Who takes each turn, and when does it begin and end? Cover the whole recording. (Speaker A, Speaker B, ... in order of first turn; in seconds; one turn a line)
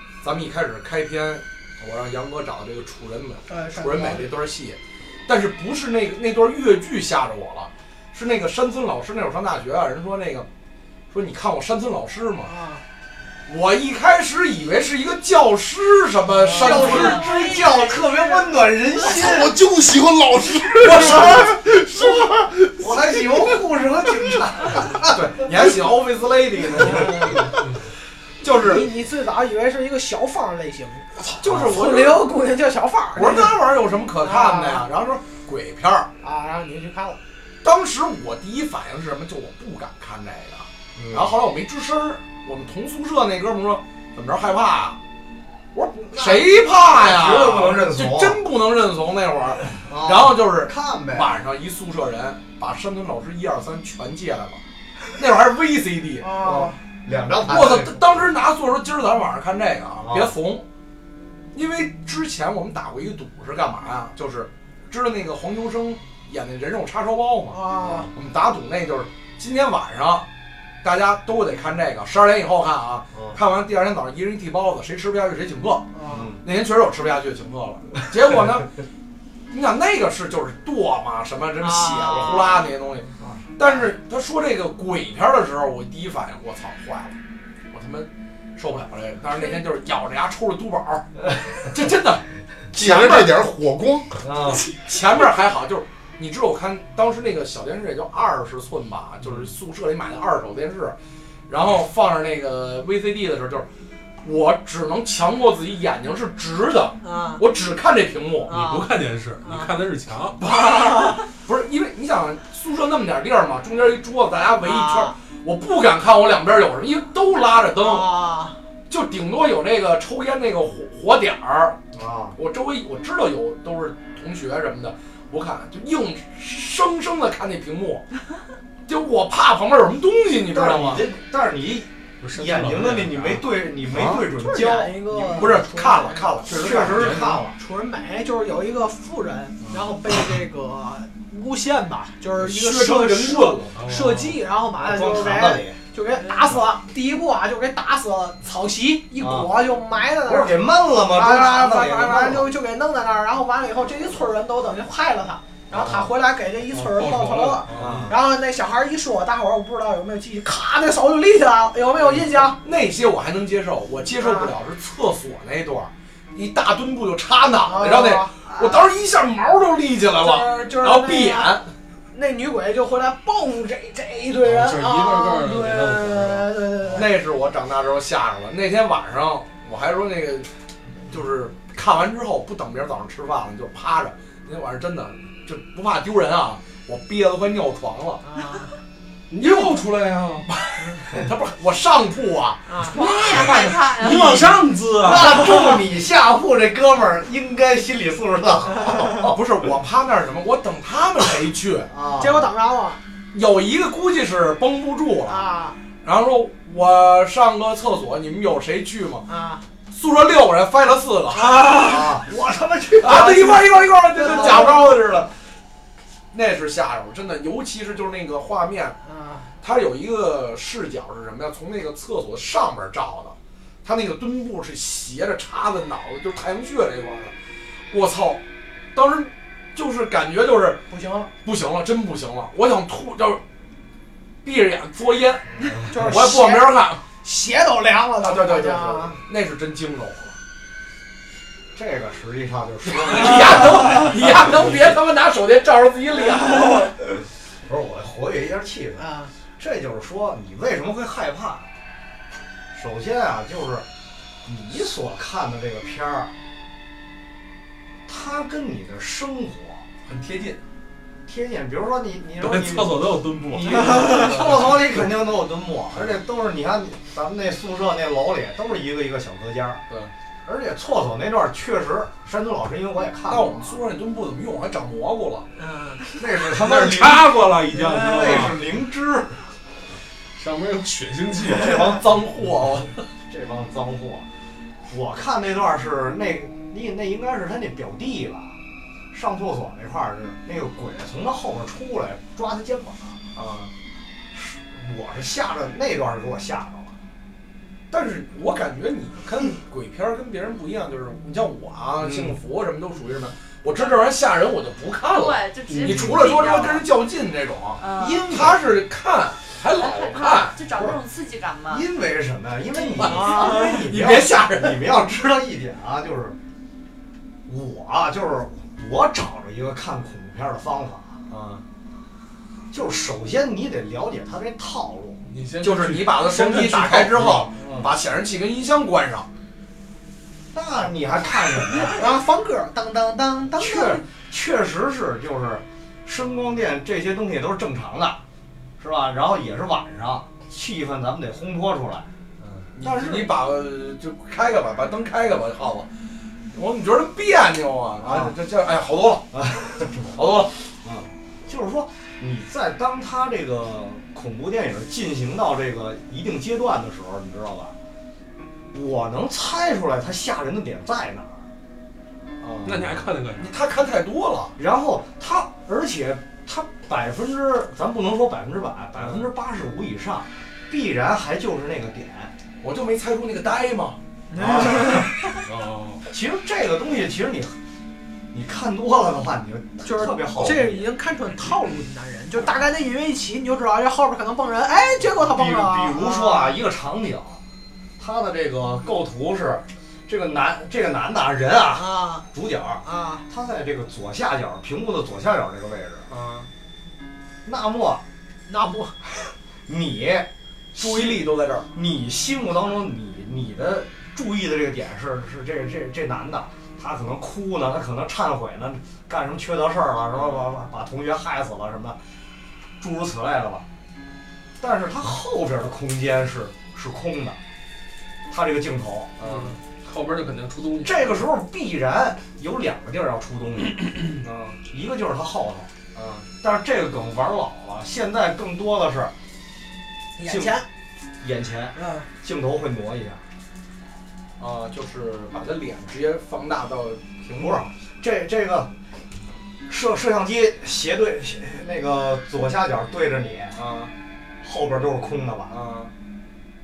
Speaker A: 0.2-10.5
Speaker B: 3.5-4.3
Speaker A: 11.1-12.5
Speaker B: 12.4-12.8
Speaker A: 13.5-17.3
Speaker C: 16.4-19.6
Speaker D: 16.6-18.5
Speaker E: 19.0-24.4
Speaker A: 20.8-21.4
Speaker C: 20.9-21.4
Speaker C: 22.8-25.2
Speaker A: 25.1-27.5
Speaker B: 26.8-27.4
Speaker F: 27.5-27.7
Speaker A: 28.4-28.9
Speaker B: 28.6-33.5
Speaker A: 31.4-32.2
Speaker A: 33.1-36.1
Speaker B: 34.2-34.8
Speaker B: 36.2-37.2
Speaker A: 37.6-45.0
Speaker C: 41.0-41.4
Speaker A: 45.7-54.6
Speaker C: 46.0-48.4
Speaker C: 49.7-51.3
Speaker A: 55.1-56.4
Speaker B: 56.2-56.8
Speaker C: 56.4-58.3
Speaker A: 57.4-60.6
Speaker C: 60.0-60.3
Speaker A: 61.5-70.3
Speaker B: 67.5-68.1
Speaker C: 67.8-68.1
Speaker A: 70.8-75.9
Speaker B: 75.9-76.3
Speaker C: 76.1-76.4
Speaker A: 76.4-78.7
Speaker A: 79.5-87.2
Speaker B: 81.6-82.6
Speaker A: 87.7-91.1
Speaker A: 91.6-92.2
Speaker E: 92.7-94.2
Speaker A: 92.7-93.4
Speaker C: 94.2-94.6
Speaker A: 94.8-101.0
Speaker C: 99.2-99.5
Speaker A: 101.5-103.7
Speaker A: 104.2-108.5
Speaker B: 107.0-107.4
Speaker B: 108.5-108.9
Speaker F: 108.5-110.4
Speaker B: 109.4-109.7
Speaker A: 110.4-118.1
Speaker B: 110.6-111.2
Speaker B: 114.6-115.1
Speaker B: 117.8-118.6
Speaker A: 118.9-121.8
Speaker C: 121.9-122.4
Speaker A: 122.3-128.0
Speaker A: 128.9-131.0
Speaker C: 130.5-135.6
Speaker F: 132.2-133.6
Speaker E: 133.9-134.2
Speaker B: 134.3-136.3
Speaker A: 135.3-137.2
Speaker F: 136.5-137.5
Speaker C: 136.5-137.6
Speaker B: 137.6-162.6
Speaker A: 142.4-143.8
Speaker F: 143.7-144.4
Speaker C: 144.8-145.8
Speaker D: 146.2-146.5
Speaker C: 149.2-149.5
Speaker C: 150.2-152.5
Speaker C: 155.7-156.1
Speaker F: 156.8-158.1
Speaker C: 157.7-158.2
Speaker A: 162.6-171.7
Speaker B: 164.2-164.5
Speaker B: 167.6-168.8
Speaker B: 170.2-171.6
Speaker B: 172.1-177.1
Speaker F: 174.4-177.0
Speaker A: 176.9-180.5
Speaker A: 181.1-188.2
Speaker B: 188.2-188.7
Speaker F: 189.3-190.8
Speaker A: 189.4-189.9
Speaker A: 190.7-194.7
Speaker B: 192.7-192.9
Speaker D: 192.9-194.2
Speaker F: 193.9-195.8
Speaker C: 195.0-199.2
Speaker A: 199.2-201.9
Speaker C: 201.9-202.5
Speaker B: 202.2-203.0
Speaker A: 203.3-205.5
Speaker B: 205.3-205.8
Speaker A: 206.0-209.2
Speaker B: 209.3-209.6
Speaker A: 209.9-211.6
Speaker B: 211.5-211.9
Speaker C: 211.6-215.0
Speaker A: 213.0-215.3
Speaker B: 214.2-214.8
Speaker A: 216.3-219.0
Speaker B: 219.0-219.5
Speaker A: 219.6-227.3
Speaker A: 227.9-228.4
Speaker A: 228.9-230.8
Speaker B: 230.9-231.3
Speaker A: 231.4-233.4
Speaker A: 234.4-237.0
Speaker C: 235.6-235.9
Speaker B: 235.9-239.2
Speaker A: 238.2-240.4
Speaker C: 241.7-244.8
Speaker A: 242.9-246.9
Speaker C: 247.7-251.7
Speaker B: 249.0-249.3
Speaker C: 252.7-253.8
Speaker C: 254.4-256.3
Speaker C: 258.1-259.9
Speaker A: 260.1-260.6
Speaker C: 261.2-269.8
Speaker F: 262.4-264.9
Speaker A: 263.8-264.7
Speaker C: 270.4-273.8
Speaker A: 273.3-275.5
Speaker B: 275.6-276.0
Speaker C: 276.1-279.4
Speaker F: 276.5-278.6
Speaker F: 280.3-282.1
Speaker A: 281.4-282.9
Speaker C: 283.3-284.3
Speaker C: 284.9-288.6
Speaker C: 289.1-293.2
Speaker A: 293.3-293.7
Speaker C: 294.3-296.9
Speaker A: 297.9-310.6
Speaker C: 301.9-302.4
Speaker D: 305.0-306.9
Speaker F: 305.7-306.3
Speaker D: 307.8-308.3
Speaker C: 308.3-308.6
Speaker D: 309.7-311.9
Speaker C: 310.8-311.0
Speaker C: 311.7-316.4
Speaker A: 312.7-314.9
Speaker B: 313.0-313.8
Speaker C: 317.4-321.2
Speaker A: 321.3-321.6
Speaker C: 322.7-325.2
Speaker F: 325.2-327.5
Speaker A: 325.6-329.3
Speaker C: 327.5-327.9
Speaker C: 330.5-332.1
Speaker B: 331.9-334.0
Speaker C: 333.6-338.2
Speaker C: 338.8-343.4
Speaker A: 342.7-345.9
Speaker A: 346.5-349.3
Speaker C: 348.0-348.3
Speaker C: 349.3-350.1
Speaker A: 350.1-350.5
Speaker C: 350.8-357.7
Speaker C: 358.7-361.4
Speaker F: 362.6-363.6
Speaker C: 362.6-363.0
Speaker A: 363.4-364.5
Speaker C: 364.6-372.3
Speaker A: 368.9-369.3
Speaker A: 372.6-374.0
Speaker B: 374.3-375.1
Speaker C: 374.4-375.1
Speaker F: 375.4-376.0
Speaker C: 376.1-377.6
Speaker C: 378.3-380.9
Speaker B: 379.8-386.6
Speaker C: 385.0-387.4
Speaker C: 388.0-396.1
Speaker B: 391.7-392.2
Speaker B: 392.8-393.2
Speaker A: 396.1-396.5
Speaker C: 397.4-398.0
Speaker B: 398.5-398.9
Speaker C: 399.7-412.0
Speaker A: 400.7-401.7
Speaker A: 410.1-410.5
Speaker C: 412.8-413.6
Speaker C: 414.6-417.4
Speaker C: 418.3-419.2
Speaker A: 419.2-419.5
Speaker F: 419.2-421.2
Speaker C: 420.8-425.7
Speaker A: 425.9-426.3
Speaker C: 426.4-429.1
Speaker B: 430.2-430.6
Speaker C: 430.2-430.6
Speaker C: 431.2-433.2
Speaker B: 431.8-432.1
Speaker A: 434.4-437.6
Speaker C: 437.4-438.7
Speaker C: 439.7-443.6
Speaker A: 443.5-443.9
Speaker C: 444.4-445.6
Speaker A: 445.5-445.9